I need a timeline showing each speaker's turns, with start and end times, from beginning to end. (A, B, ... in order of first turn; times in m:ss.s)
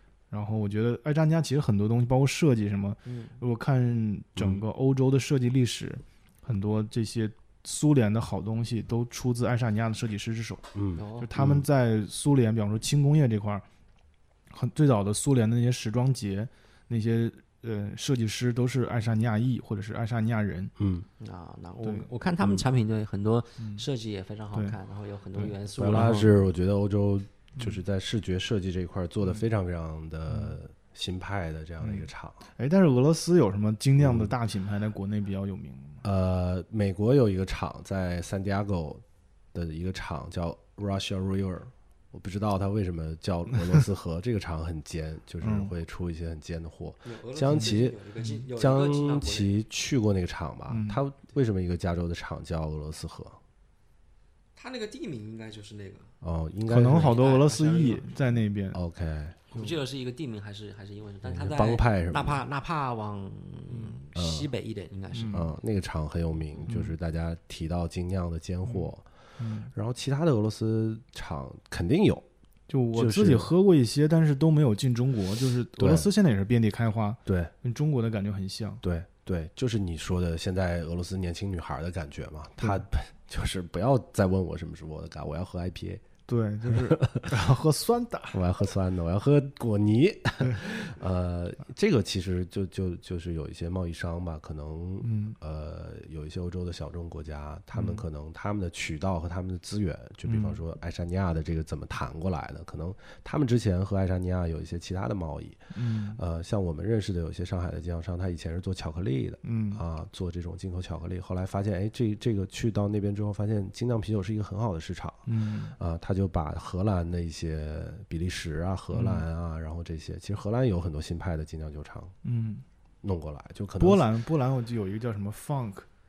0:00.3-0:13.6 A
0:03.0-0:03.4 B
0:04.4-0:04.6 C
0:10.8-0:11.6 C
0:11.0-0:11.3 B
0:14.5-0:20.7 A
0:20.8-0:21.0 C
0:21.2-0:26.3 B
0:21.8-0:22.1 A
0:23.6-0:23.8 A
0:24.5-0:24.8 A
0:25.8-0:32.4 C
0:30.3-0:30.6 A
0:31.8-0:36.0 A
0:34.0-0:34.3 C
0:36.0-0:39.0 C
0:39.5-0:48.0 C
0:45.4-0:45.7 A
0:47.0-0:49.5 B
0:47.5-0:48.4 A
0:48.6-0:53.4 C
0:50.7-0:51.0 A
0:54.5-0:56.1 B
0:56.2-0:57.1 C
0:56.7-0:58.8 A
0:56.9-0:58.2 B
0:58.7-0:59.4 C
0:59.5-1:05.5 B
1:01.2-1:02.4 C
1:03.7-1:04.0 A
1:04.1-1:04.5 C
1:05.1-1:05.5 A
1:05.3-1:09.0 C
1:06.6-1:06.9 A
1:08.6-1:09.7 A
1:09.7-1:12.2 C
1:12.7-1:18.8 A
1:12.9-1:13.5 C
1:15.8-1:16.1 C
1:17.3-1:17.5 C
1:18.8-1:26.0 C
1:22.6-1:22.8 A
1:26.3-1:28.4 A
1:26.7-1:27.3 C
1:28.3-2:02.1 C
1:30.4-1:30.6 A
1:35.0-1:35.4 A
1:37.7-1:38.0 A
1:40.2-1:40.6 A
1:45.7-1:46.2 A
1:49.4-1:49.8 A
1:55.3-1:55.7 A
1:58.9-1:59.2 A
2:02.2-2:02.6 A
2:03.0-2:04.0 C
2:03.8-2:05.9 A